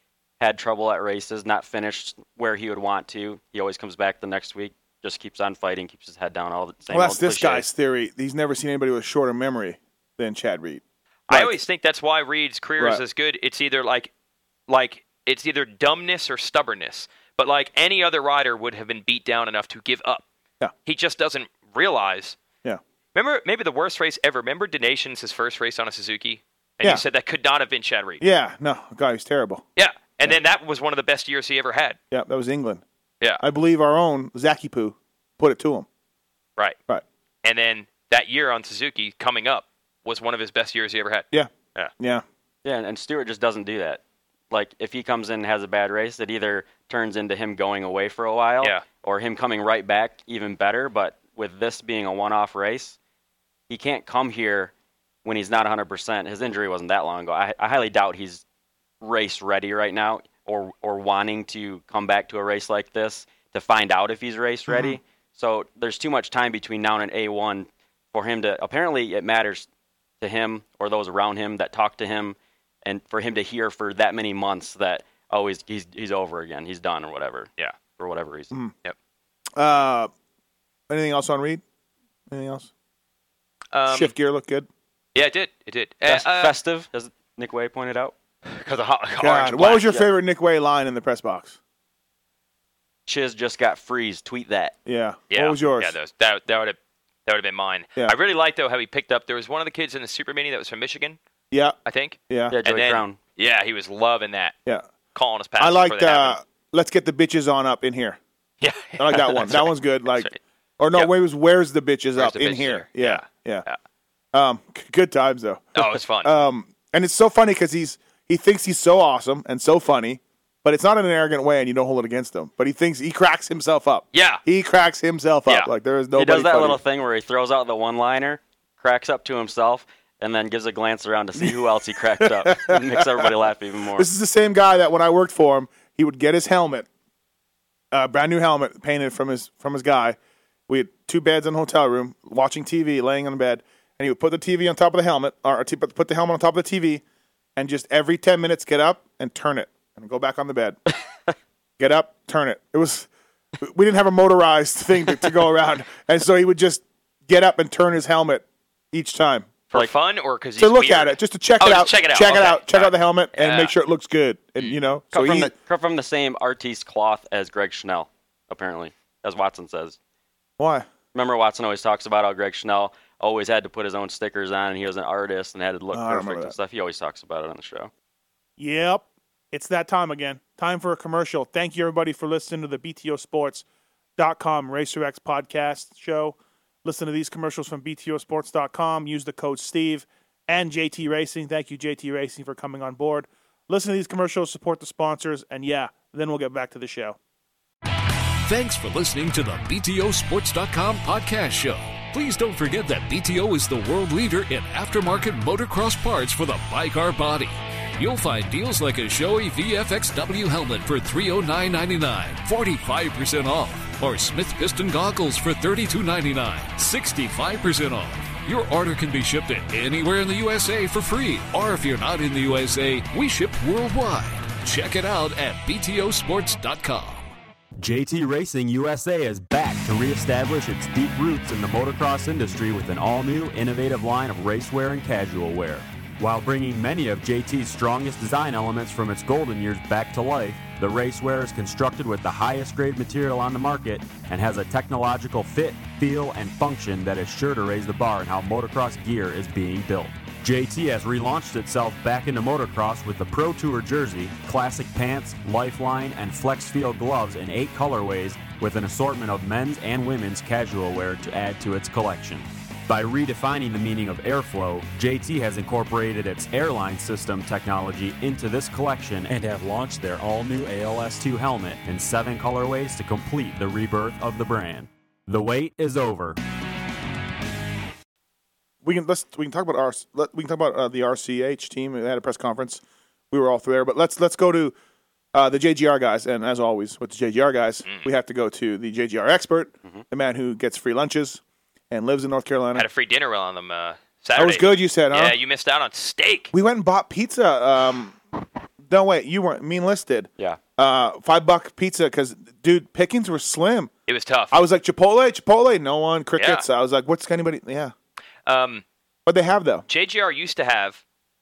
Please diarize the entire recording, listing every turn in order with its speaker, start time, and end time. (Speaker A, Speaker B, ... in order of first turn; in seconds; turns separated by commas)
Speaker A: 0.4-7.7, Speaker B: 6.9-11.5, Speaker C: 11.3-14.1, Speaker C: 14.7-20.2, Speaker C: 20.9-22.4, Speaker C: 23.1-28.2, Speaker B: 28.2-29.6, Speaker C: 29.8-32.0, Speaker B: 32.1-32.8, Speaker B: 33.4-35.9, Speaker C: 37.4-41.9, Speaker B: 41.3-42.2, Speaker A: 42.6-53.0, Speaker A: 53.7-54.7, Speaker A: 55.2-58.4, Speaker A: 59.0-69.7, Speaker B: 64.7-65.0, Speaker A: 70.2-78.5, Speaker B: 79.5-80.1, Speaker B: 80.9-81.6, Speaker B: 82.3-82.7, Speaker C: 83.7-84.1, Speaker B: 83.9-84.7, Speaker C: 85.1-86.5, Speaker A: 86.0-88.1, Speaker C: 88.5-90.0, Speaker B: 89.2-91.6, Speaker A: 93.1-94.7, Speaker B: 94.8-95.9, Speaker C: 95.3-101.2, Speaker B: 101.5-101.8, Speaker C: 101.8-104.5, Speaker B: 102.3-102.5, Speaker A: 102.5-103.2, Speaker C: 105.1-106.4, Speaker B: 105.6-108.2, Speaker C: 108.6-110.3, Speaker B: 109.0-113.6, Speaker C: 112.2-113.8, Speaker B: 114.3-126.8, Speaker C: 115.7-116.3, Speaker C: 124.1-124.4, Speaker A: 126.2-134.1, Speaker B: 131.4-133.3, Speaker B: 133.9-136.9, Speaker B: 137.9-140.2, Speaker B: 140.7-147.0, Speaker B: 147.6-150.8, Speaker B: 151.8-153.1, Speaker B: 153.6-159.5, Speaker C: 159.7-163.7, Speaker B: 160.6-165.5, Speaker A: 165.1-170.0, Speaker B: 170.6-170.9, Speaker A: 171.1-177.9, Speaker B: 175.9-176.5, Speaker B: 178.6-183.6, Speaker B: 184.2-197.2, Speaker D: 198.4-227.3, Speaker E: 227.8-276.4, Speaker B: 278.8-284.7, Speaker B: 285.3-292.9, Speaker C: 287.8-288.1, Speaker C: 292.7-296.5, Speaker B: 294.4-295.4, Speaker B: 296.5-298.2, Speaker B: 298.9-303.9, Speaker C: 304.1-304.6, Speaker B: 304.5-307.9, Speaker C: 306.4-306.6, Speaker C: 308.4-308.8, Speaker B: 309.2-309.9, Speaker C: 309.9-311.0